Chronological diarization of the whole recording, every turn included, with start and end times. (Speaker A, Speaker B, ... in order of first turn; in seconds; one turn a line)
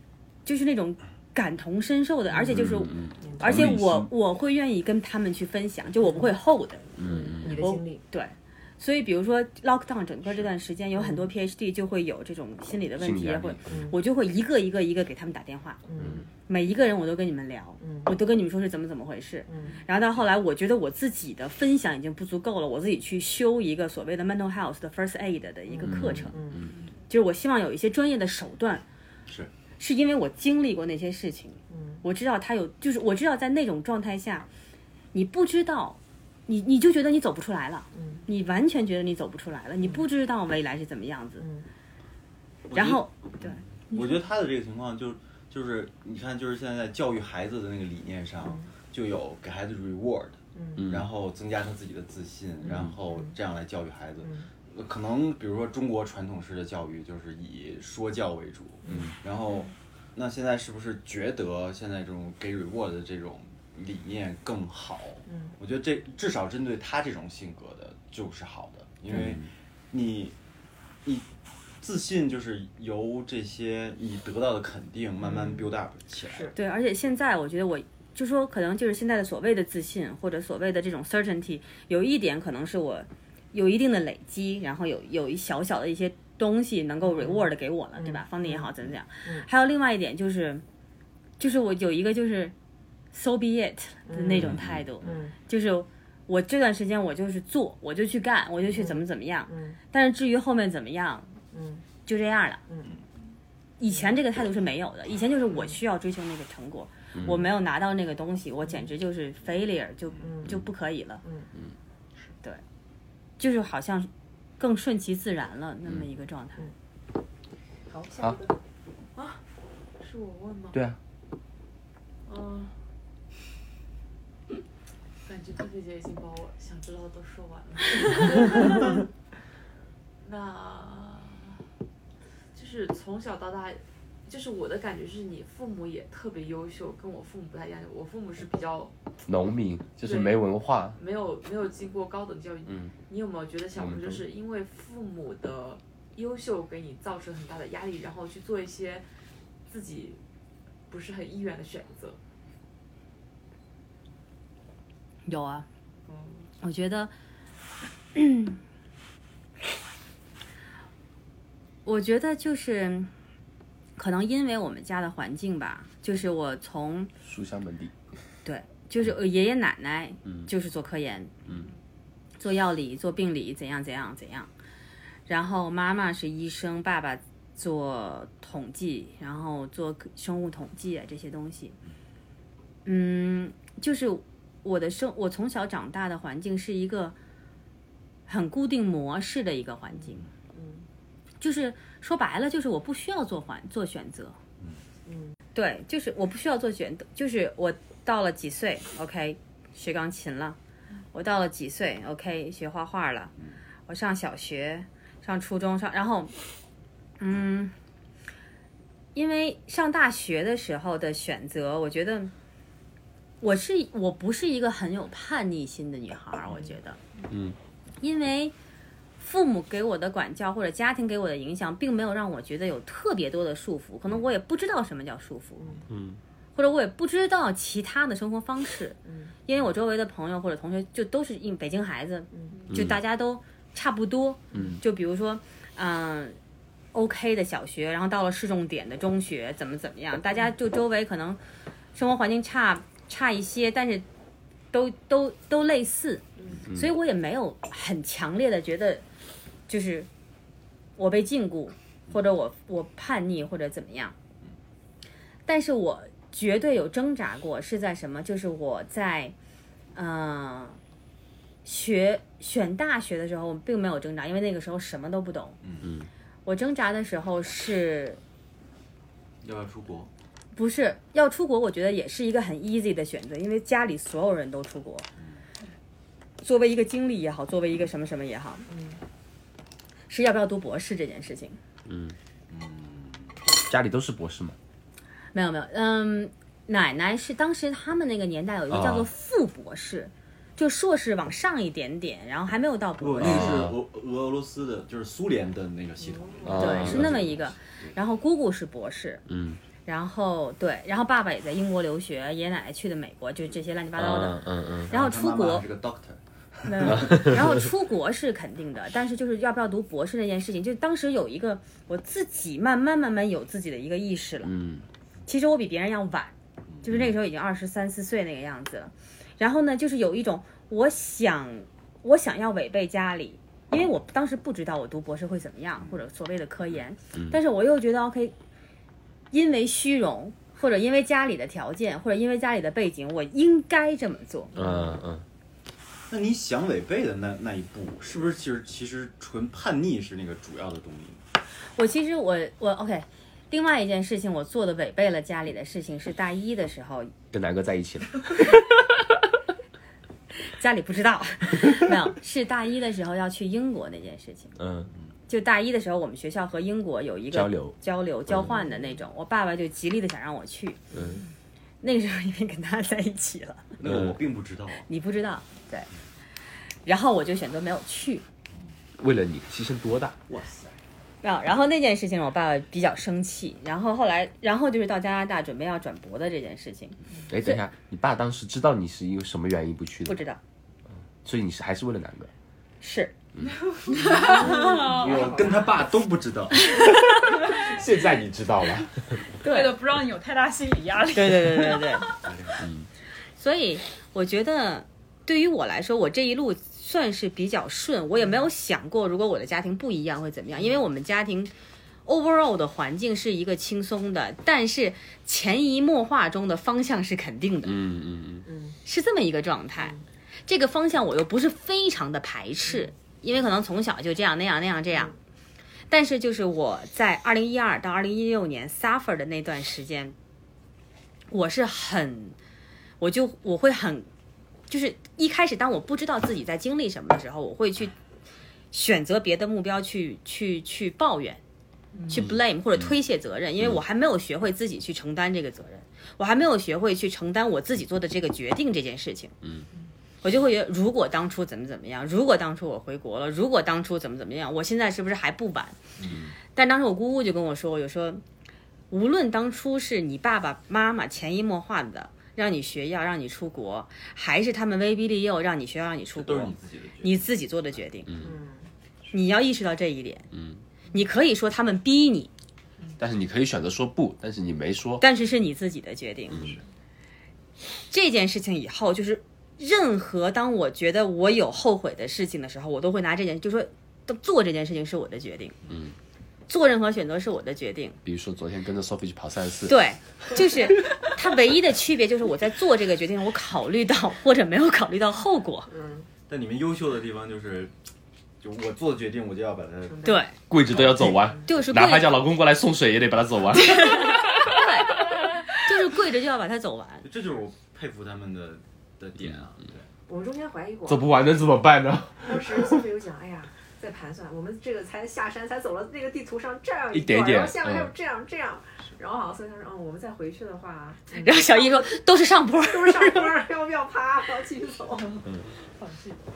Speaker A: 0.4-15.8
Speaker B: 2.5-4.1
Speaker C: 3.2-3.6
Speaker B: 7.0-7.6
Speaker C: 7.0-8.0
Speaker B: 13.0-13.6
Speaker C: 13.7-13.9
Speaker C: 15.9-16.2
Speaker A: 16.4-26.4
Speaker C: 17.8-18.1
Speaker C: 19.5-19.8
Speaker C: 25.7-26.6
Speaker B: 25.8-26.7
Speaker A: 27.1-28.8
Speaker A: 29.8-34.5
Speaker C: 31.7-32.0
Speaker A: 35.1-41.5
Speaker C: 38.0-38.2
Speaker D: 42.7-70.4
Speaker A: 42.7-44.0
Speaker C: 50.5-50.8
Speaker B: 50.8-51.1
Speaker B: 69.1-69.5
Speaker D: 71.8-76.5
Speaker C: 76.2-76.5
Speaker A: 76.5-90.6
Speaker C: 88.0-88.7
Speaker A: 91.4-92.5
Speaker A: 93.1-101.3
Speaker C: 94.1-95.3
Speaker B: 94.4-94.9
Speaker C: 98.7-99.8
Speaker C: 101.5-101.8
Speaker A: 102.0-102.6
Speaker A: 103.8-111.2
Speaker B: 107.1-107.4
Speaker C: 110.2-110.5
Speaker A: 113.4-116.7
Speaker C: 117.9-118.6
Speaker E: 120.0-120.8
Speaker B: 120.7-121.0
Speaker E: 122.2-122.7
Speaker E: 125.2-128.9
Speaker E: 130.2-131.6
Speaker E: 132.5-138.9
Speaker B: 139.2-141.0
Speaker E: 140.0-140.4
Speaker E: 140.9-149.1
Speaker B: 142.7-142.9
Speaker B: 143.7-144.2
Speaker E: 149.7-150.2
Speaker E: 150.9-152.2
Speaker A: 155.2-155.7
Speaker E: 156.1-156.5
Speaker A: 156.6-157.1
Speaker A: 158.2-158.6
Speaker A: 161.8-163.1
Speaker A: 164.0-167.1
Speaker B: 167.2-167.9
Speaker A: 168.4-171.3
Speaker A: 172.4-174.5
Speaker A: 175.3-181.8
Speaker A: 182.8-187.1
Speaker A: 188.3-190.2
Speaker C: 190.5-190.8
Speaker A: 191.4-194.4
Speaker C: 195.1-195.3
Speaker A: 195.6-200.6
Speaker A: 201.1-203.3
Speaker A: 203.9-206.3
Speaker A: 207.2-207.7
Speaker A: 209.1-212.3
Speaker A: 213.4-217.0
Speaker B: 217.3-217.6
Speaker A: 218.0-218.5
Speaker A: 219.2-225.7
Speaker B: 225.9-226.2
Speaker A: 226.6-236.4
Speaker B: 232.7-233.0
Speaker A: 236.9-241.4
Speaker A: 241.9-244.1
Speaker A: 244.7-249.0
Speaker A: 249.7-250.1
Speaker A: 251.0-254.1
Speaker A: 255.5-259.3
Speaker A: 259.9-260.8
Speaker A: 261.6-265.6
Speaker D: 265.6-265.9
Speaker B: 265.8-266.1
Speaker A: 266.4-268.2
Speaker D: 269.4-270.1
Speaker A: 270.5-275.1
Speaker A: 276.4-278.6
Speaker C: 278.7-279.0
Speaker A: 280.1-281.6
Speaker B: 281.9-282.2
Speaker D: 282.5-283.3
Speaker B: 283.6-284.6
Speaker A: 285.3-293.6
Speaker B: 288.7-289.1
Speaker D: 293.0-297.9
Speaker B: 293.2-293.7
Speaker B: 296.4-297.1
Speaker A: 296.6-299.2
Speaker B: 299.3-299.6
Speaker A: 299.9-305.6
Speaker B: 304.0-304.9
Speaker D: 304.9-307.4
Speaker A: 306.6-314.5
Speaker B: 306.9-307.3
Speaker B: 314.4-314.8
Speaker A: 315.3-328.3
Speaker A: 329.3-334.5
Speaker B: 334.6-335.2
Speaker D: 336.1-341.2
Speaker A: 341.8-347.1
Speaker B: 347.3-348.8
Speaker A: 350.6-354.5
Speaker B: 354.6-354.9
Speaker A: 355.3-360.8
Speaker B: 357.3-357.7
Speaker A: 361.8-363.8
Speaker D: 363.8-364.9
Speaker B: 363.8-364.1
Speaker A: 364.9-365.9
Speaker A: 366.8-368.2
Speaker B: 369.0-370.1
Speaker D: 370.3-370.8
Speaker A: 371.2-377.6
Speaker B: 377.3-380.2
Speaker A: 380.1-380.4
Speaker B: 381.2-382.3
Speaker A: 382.8-383.1
Speaker C: 383.9-385.8
Speaker F: 384.0-385.2
Speaker D: 384.3-386.8
Speaker B: 387.4-389.2
Speaker F: 389.4-392.1
Speaker A: 389.4-389.7
Speaker A: 391.1-392.1
Speaker D: 392.2-392.6
Speaker B: 392.6-392.9
Speaker A: 393.4-401.5
Speaker A: 402.1-407.7
Speaker B: 407.6-408.4
Speaker C: 408.4-408.8
Speaker A: 408.9-415.1
Speaker A: 415.9-420.1
Speaker A: 421.3-422.4
Speaker A: 423.0-424.1
Speaker A: 424.7-427.9
Speaker A: 428.7-431.4
Speaker A: 432.1-439.3
Speaker B: 432.1-432.9
Speaker A: 440.2-445.8
Speaker D: 446.0-446.3
Speaker A: 446.5-448.2
Speaker A: 448.9-458.1
Speaker D: 456.1-457.3
Speaker B: 458.1-458.3
Speaker C: 458.2-458.7
Speaker A: 459.1-460.3
Speaker B: 460.3-460.6
Speaker A: 460.9-462.3
Speaker B: 463.0-465.0
Speaker A: 465.0-466.4
Speaker D: 466.3-466.6
Speaker A: 467.9-475.6
Speaker B: 475.7-475.9
Speaker A: 476.5-478.0
Speaker B: 478.1-479.8
Speaker A: 479.7-485.7
Speaker C: 485.7-486.1
Speaker D: 486.3-487.7
Speaker D: 488.4-490.1
Speaker C: 489.9-490.2
Speaker A: 490.0-490.3
Speaker B: 490.5-494.1
Speaker D: 490.7-491.2
Speaker A: 491.5-492.1
Speaker A: 493.6-497.1
Speaker D: 497.0-499.9
Speaker C: 500.1-501.1
Speaker B: 500.9-502.8
Speaker C: 502.2-511.9
Speaker B: 506.9-507.9
Speaker A: 511.1-513.4
Speaker C: 512.6-515.3